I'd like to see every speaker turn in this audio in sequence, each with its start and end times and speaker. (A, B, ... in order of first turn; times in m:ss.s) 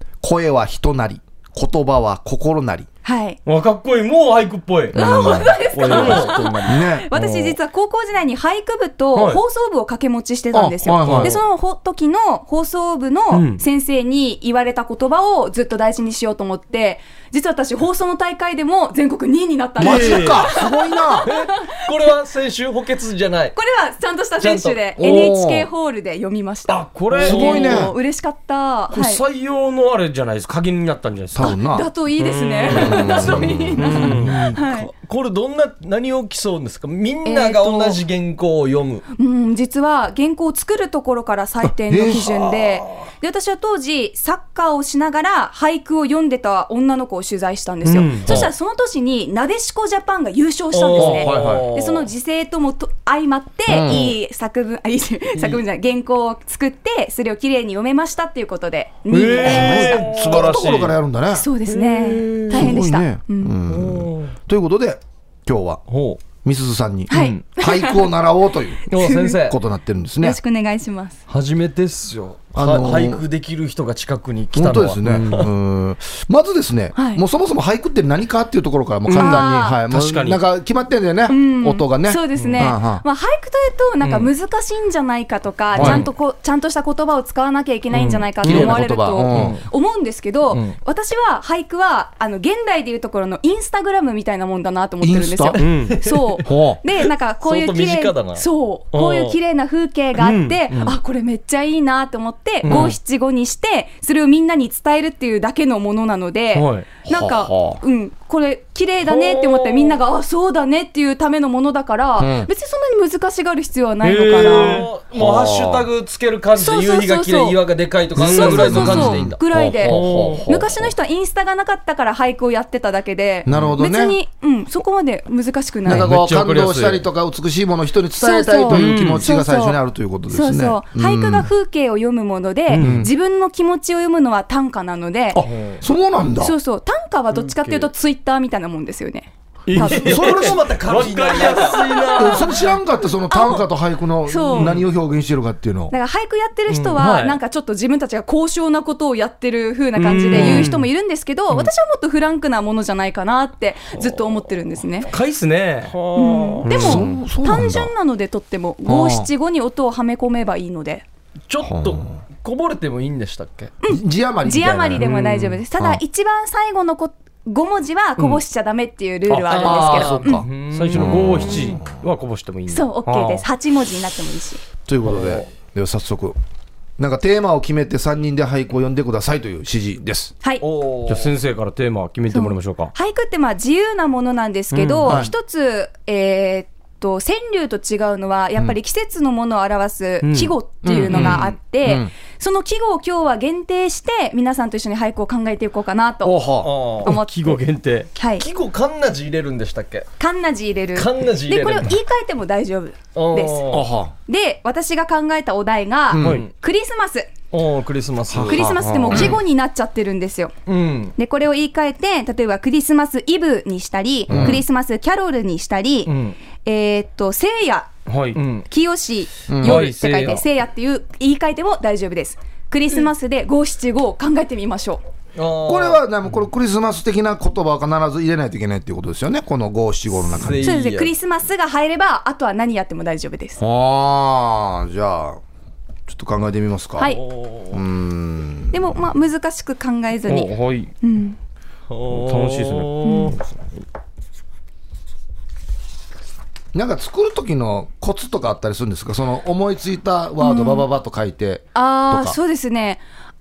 0:00.2-0:02.9 A
0:03.0-0:03.4 B
0:03.5-0:06.5 C
0:04.9-0:05.6 A
0:04.9-0:21.5 B
0:05.7-0:06.8 D
0:06.6-0:07.1 A
0:09.2-0:09.4 C
0:10.5-0:11.4 A
0:11.0-0:11.4 C
0:13.3-0:13.6 C
0:19.8-0:21.3 A
0:19.8-0:20.4 D
0:19.8-0:20.2 C
0:21.2-0:23.6 D
0:23.6-0:29.2 B
0:24.4-0:24.8 D
0:25.0-0:25.7 A
0:26.7-0:27.9 C
0:27.2-0:28.0 A
0:28.9-0:31.6 C
0:31.3-0:31.9 A
0:31.4-0:34.9 B
0:32.2-0:34.6 C
0:32.7-0:34.5 A
0:34.5-0:39.0 D
0:37.2-0:38.0 B
0:39.2-1:00.1 B
0:41.9-0:42.3 A
0:42.2-0:42.9 D
0:47.8-0:48.4 C
0:50.7-0:52.1 D
0:51.0-0:51.7 A
0:53.7-0:54.0 A
0:59.1-1:01.0 C
0:59.4-1:01.5 A
0:59.6-0:59.9 D
1:01.3-1:03.6 B
1:01.7-1:02.5 D
1:02.5-1:05.8 A
1:03.7-1:04.3 D
1:05.9-1:06.2 D
1:06.4-1:10.4 A
1:07.1-1:08.1 B
1:07.1-1:07.4 D
1:08.9-1:09.4 B
1:08.9-1:09.6 D
1:10.2-1:11.2 B
1:11.3-1:15.5 D
1:12.5-1:13.2 A
1:14.5-1:23.0 A
1:17.0-1:17.2 B
1:19.1-1:20.4 C
1:19.1-1:19.8 B
1:21.3-1:54.9 B
1:25.8-1:26.0 A
1:25.8-1:26.0 C
1:27.9-1:28.7 D
1:28.4-1:29.6 A
1:29.3-1:29.6 D
1:30.5-1:30.8 D
1:35.0-1:35.6 A
1:35.6-1:36.0 C
1:35.6-1:36.5 D
1:36.4-1:36.8 A
1:37.4-1:39.4 D
1:40.2-1:40.6 C
1:40.7-1:41.0 D
1:42.6-1:42.9 D
1:46.5-1:46.9 C
1:47.1-1:47.8 A
1:49.3-1:49.9 D
1:52.2-1:52.5 A
1:54.0-1:54.9 C
1:54.3-2:00.5 D
1:55.1-1:55.9 A
1:56.6-1:57.6 B
1:58.2-1:59.0 C
1:58.2-2:00.9 A
1:58.2-2:06.1 B
1:59.9-2:00.4 C
2:03.5-2:04.2 A
2:05.8-2:11.5 A
2:05.9-2:07.0 C
2:08.2-2:09.8 B
2:08.7-2:09.3 C
2:10.3-2:15.4 B
2:12.7-2:13.0 C
2:12.8-2:13.1 A
2:15.3-2:16.6 A
2:16.4-2:20.4 B
2:19.7-2:22.6 C
2:19.8-2:20.6 A
2:20.0-2:21.8 D
2:21.5-2:22.5 B
2:22.2-2:25.9 A
2:23.3-2:23.7 B
2:24.3-2:24.8 B
2:25.9-2:35.1 B
2:27.0-2:27.4 C
2:30.0-2:30.9 C
2:35.1-2:36.0 C
2:35.8-2:36.7 D
2:36.2-2:41.0 B
2:36.6-2:37.0 C
2:36.7-2:37.9 A
2:38.9-2:39.3 A
2:41.5-2:43.7 D
2:41.6-2:42.1 A
2:43.8-2:50.4 B
2:43.9-2:45.1 A
2:45.0-2:45.6 C
2:49.3-2:53.4 C
2:49.6-2:51.9 A
2:49.6-2:51.5 D
2:52.7-2:54.6 B
2:54.9-2:56.4 A
2:55.1-2:55.5 D
2:57.0-3:00.3 A
3:00.6-3:01.3 D
3:01.1-3:02.9 C
3:02.3-3:16.5 B
3:04.7-3:05.2 C
3:05.0-3:05.3 A
3:10.2-3:10.5 C
3:10.8-3:12.1 A
3:11.1-3:11.4 C
3:16.2-3:16.8 A
3:16.6-3:17.1 D
3:17.0-3:17.6 B
3:17.0-3:18.1 C
3:18.2-3:18.4 B
3:18.4-3:20.1 D
3:20.2-3:27.3 B
3:21.0-3:21.9 D
3:23.2-3:23.9 D
3:23.7-3:24.1 A
3:26.1-3:26.4 A
3:26.2-3:26.4 C
3:27.5-3:29.3 D
3:28.3-3:29.4 A
3:28.4-3:30.5 B
3:30.7-3:31.2 D
3:31.2-3:37.9 B
3:34.3-3:34.6 A
3:36.1-3:36.4 D
3:38.1-3:38.4 C
3:38.4-3:38.7 D
3:38.7-3:45.0 B
3:39.5-3:39.9 A
3:39.6-3:40.4 C
3:40.0-3:40.4 D
3:45.4-3:46.0 D
3:45.6-3:50.7 A
3:50.3-3:51.1 D
3:50.6-3:53.6 B
3:53.6-3:55.4 A
3:56.1-3:57.2 A
3:57.1-3:57.8 D
3:57.7-3:59.0 A
3:58.7-4:01.4 B
4:00.3-4:00.9 C
4:01.9-4:03.4 D
4:02.1-4:03.4 C
4:03.0-4:03.4 B
4:06.7-4:12.4 A
4:10.4-4:10.9 B
4:11.8-4:13.0 B